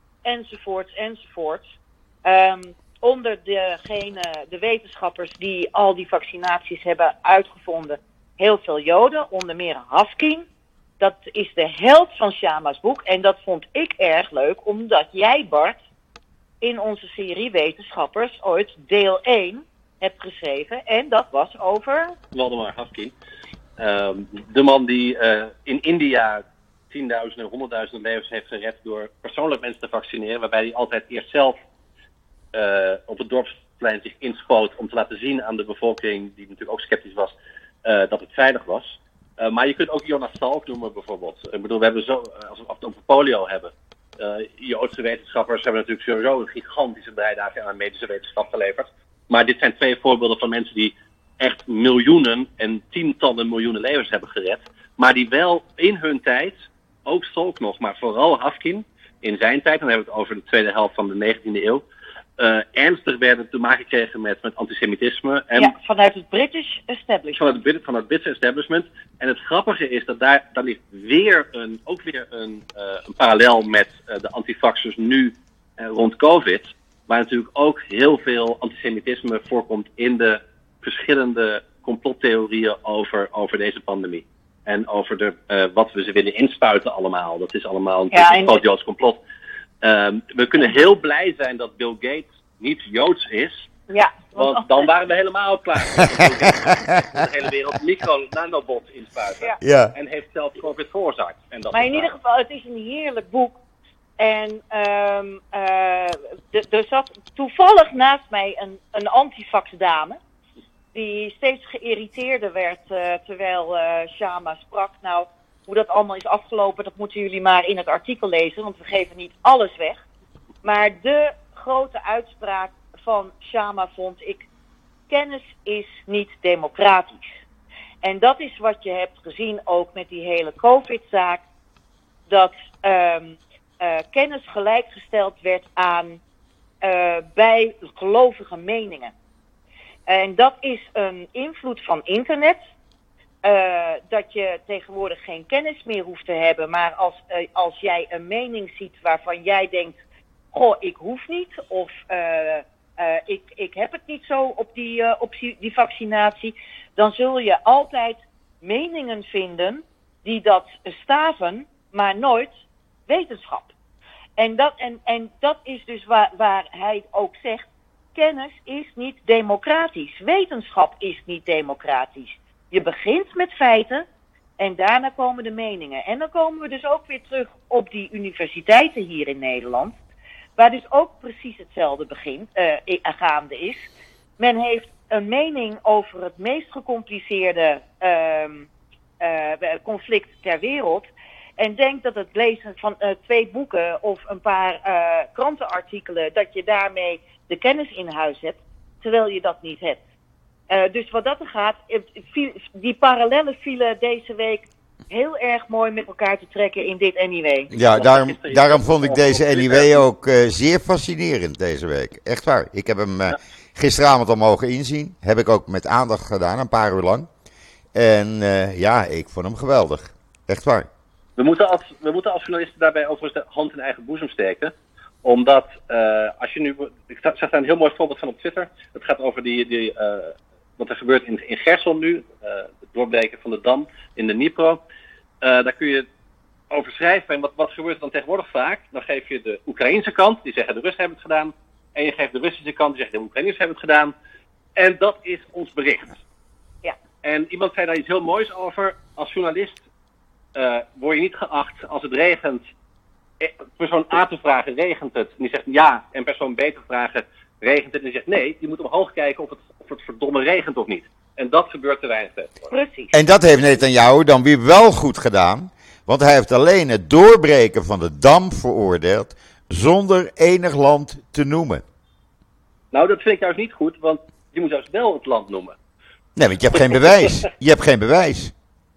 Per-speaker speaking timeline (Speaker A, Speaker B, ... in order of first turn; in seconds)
Speaker A: 0.2-10.4, 11.0-15.8, 16.6-22.1, 65.5-67.5, 88.1-88.6, 93.9-94.8, 101.7-103.6, 104.2-110.2, 110.9-120.0, 120.6-124.5, 125.1-127.4, 128.0-131.4, 132.3-136.2, 136.8-139.1, 140.1-142.7, 143.4-150.0, 150.5-163.7, 164.4-174.0, 174.6-180.0, 180.6-188.7, 189.2-191.1, 191.6-200.0, 200.7-207.7, 262.7-263.1
Speaker B: 22.3-23.1, 23.8-31.5, 32.5-56.5, 57.0-61.8, 62.4-65.7, 67.3-89.2, 89.8-93.7, 94.3-102.1, 207.8-210.0, 221.4-224.7, 225.2-234.8, 235.4-236.1, 236.7-244.1, 244.8-246.2, 247.2-249.8, 250.5-252.6, 253.4-262.6, 272.9-275.8, 276.7-277.4
Speaker C: 99.6-99.9, 207.7-217.3, 217.9-220.9, 263.1-271.8, 276.4-278.5